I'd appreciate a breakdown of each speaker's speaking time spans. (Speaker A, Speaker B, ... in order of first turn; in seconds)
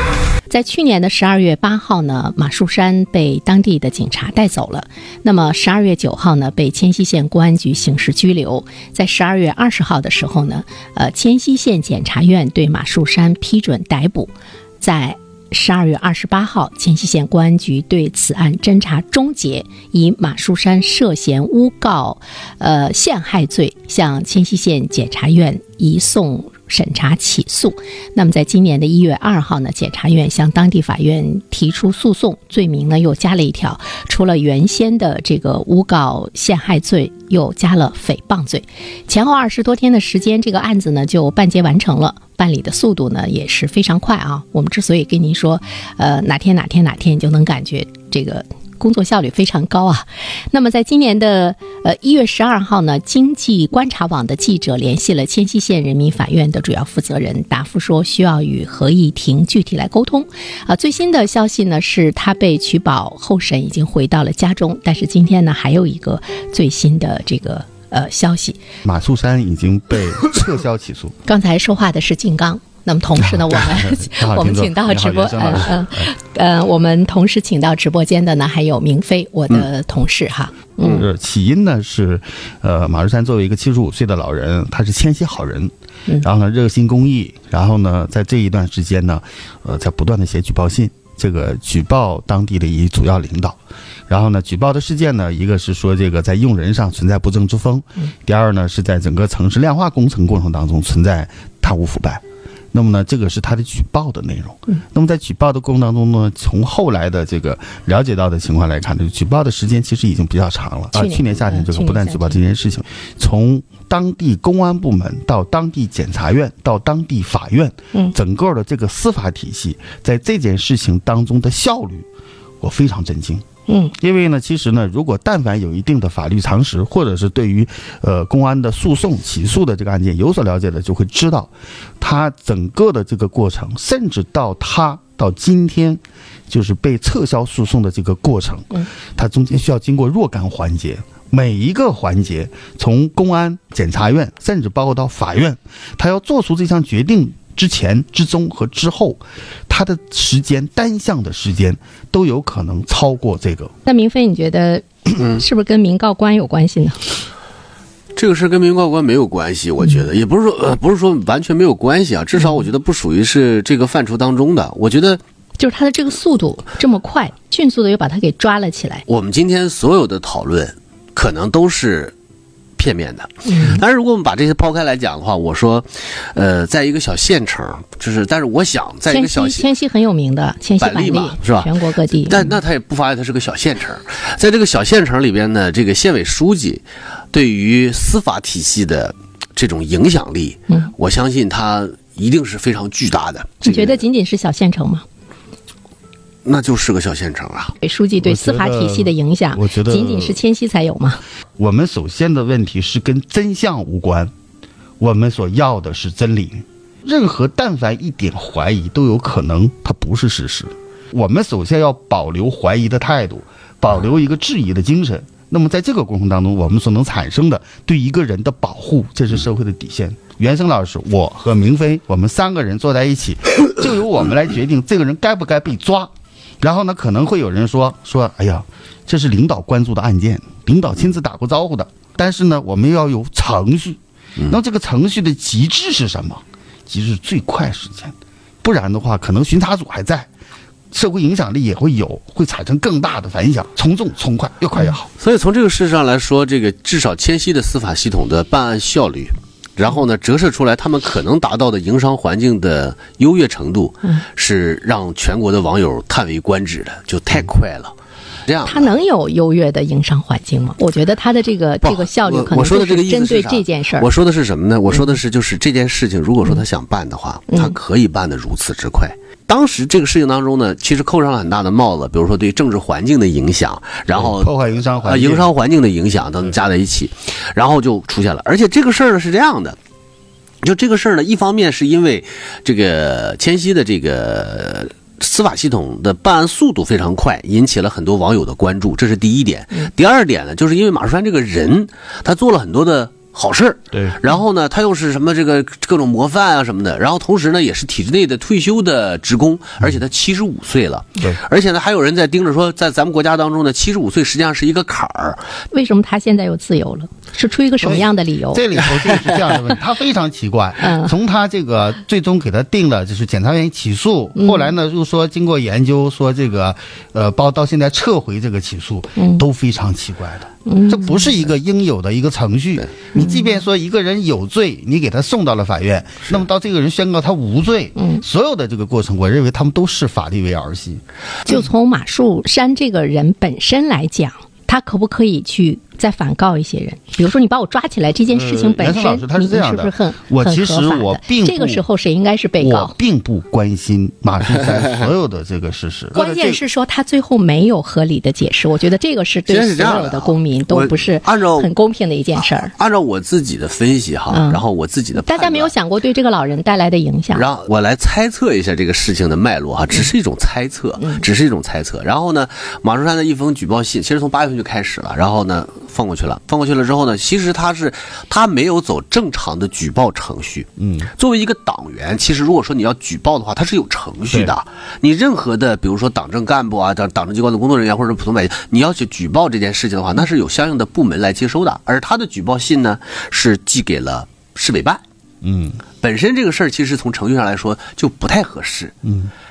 Speaker A: 0.5-68.6, 71.2-81.1, 110.9-112.4, 123.7-123.9, 153.8-157.1, 165.6-169.0, 173.4-173.8, 179.1-182.5, 193.6-195.1, 197.8-201.2, 258.6-264.1, 267.5-267.8, 305.7-308.6, 310.8-311.1, 314.4-314.7, 319.2-319.4, 320.7-321.2, 328.0-328.2, 331.5-342.9, 346.1-352.7, 354.3-354.6, 355.2-357.5
Speaker B: 68.8-71.1, 73.2-76.1, 80.9-93.6, 94.1-122.1, 122.6-153.7, 198.2-200.4, 201.6-204.3, 205.0-240.3, 240.9-245.1, 274.1-275.5, 293.9-294.2, 307.8-331.5, 338.3-341.8, 342.6-346.6, 370.8-371.1, 385.4-385.8, 389.0-389.3
Speaker C: 158.2-165.2, 169.1-172.1, 172.8-179.7, 180.8-194.0, 196.4-197.8, 245.2-257.9, 258.5-259.0, 261.8-279.8, 280.6-305.4, 349.5-351.7, 352.5-355.7, 357.3-385.0, 386.0-388.9